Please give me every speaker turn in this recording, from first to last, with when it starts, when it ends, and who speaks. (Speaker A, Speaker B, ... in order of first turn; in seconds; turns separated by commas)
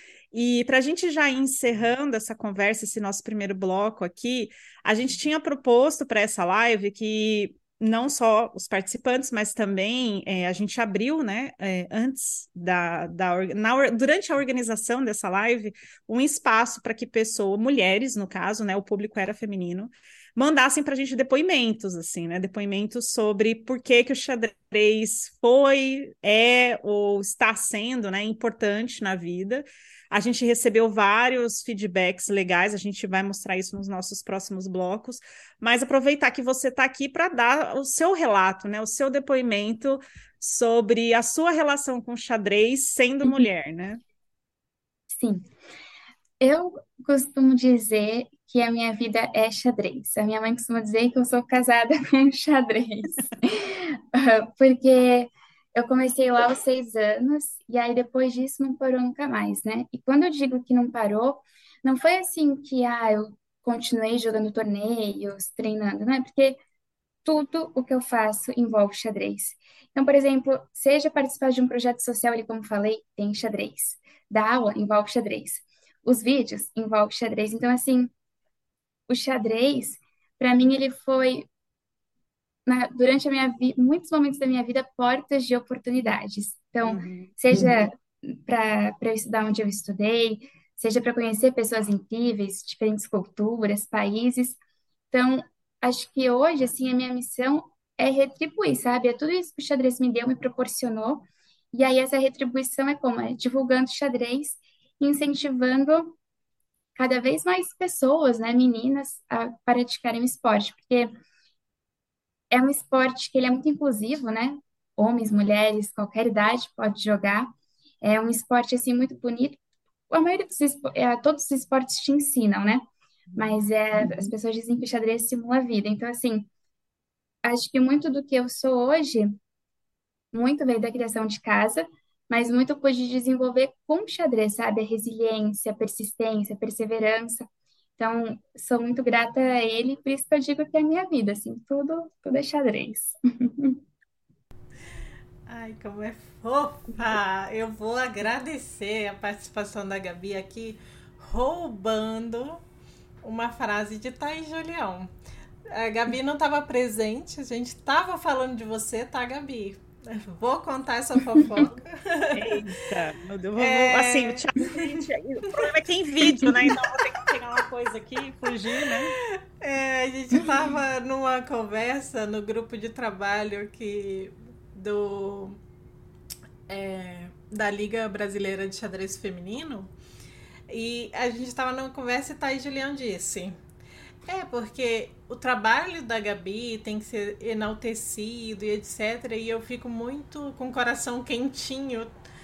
Speaker A: 0.3-44.0, Speaker B: 45.1-45.5, Speaker B: 46.4-66.6, Speaker B: 67.2-78.1, Speaker B: 79.1-81.5, Speaker B: 82.7-94.6, Speaker A: 86.8-87.3, Speaker B: 95.1-106.1, Speaker B: 107.0-111.1, Speaker B: 112.5-117.5, Speaker B: 118.0-119.6, Speaker B: 120.1-126.5, Speaker B: 127.4-129.3, Speaker B: 130.3-137.4, Speaker B: 138.0-143.8, Speaker C: 145.5-152.6, Speaker C: 153.2-155.1, Speaker C: 155.7-162.6, Speaker B: 161.3-161.6, Speaker A: 162.3-169.1, Speaker C: 163.6-165.6, Speaker C: 166.3-166.7, Speaker C: 168.8-175.6, Speaker C: 176.7-179.9, Speaker C: 180.7-183.6, Speaker C: 184.2-192.1